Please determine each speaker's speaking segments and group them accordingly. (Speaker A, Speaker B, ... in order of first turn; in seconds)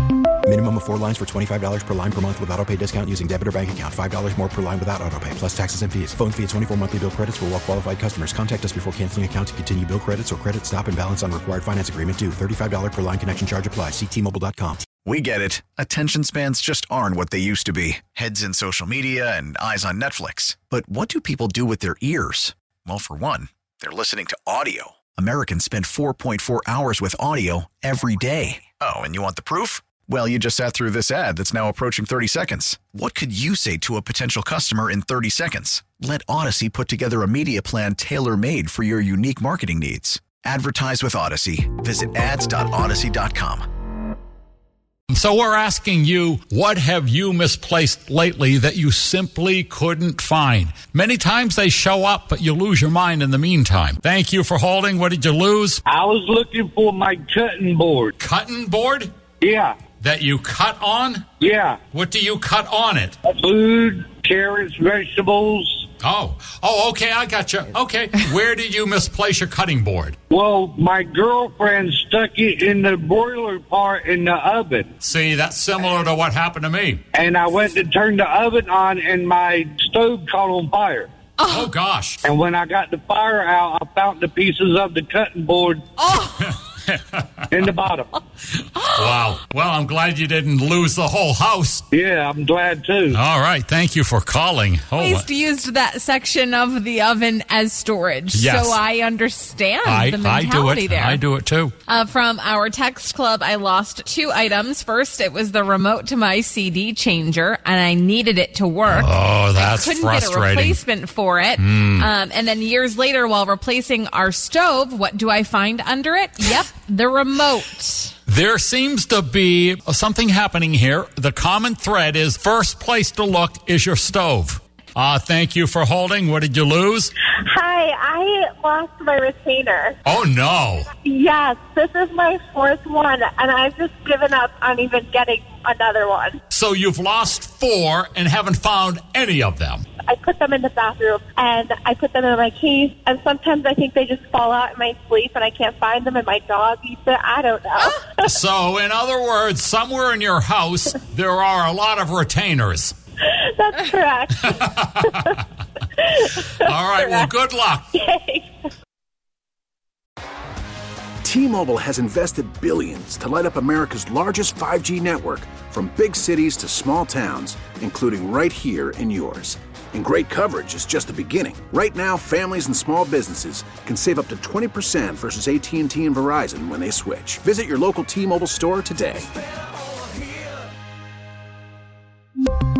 Speaker A: 0.4-14.9
Speaker B: 15.0-43.6
Speaker C: 45.1-55.8, 58.2-59.1, 60.0-61.3, 61.9-63.1, 66.0-70.2, 75.0-77.0, 81.5-82.2, 86.4-87.6, 88.6-91.8, 93.1-95.3, 98.3-98.8, 99.8-101.7, 108.9-110.8, 111.6-112.1, 118.3-127.1, 130.0-130.9, 136.5-139.8, 148.2-152.9, 154.4-155.4, 156.6-157.9
Speaker D: 55.9-58.1, 59.4-59.7, 61.4-61.8, 63.3-65.8, 70.3-74.9, 77.2-81.1, 82.3-85.8, 87.5-88.0, 91.9-93.1
Speaker E: 81.4-81.7, 86.0-86.6, 95.0-101.2, 101.9-118.1
Speaker F: 127.4-129.9, 131.0-136.4, 140.0-148.3, 153.2-155.3, 155.9-157.3, 157.9-158.5
Speaker G: 161.2-179.3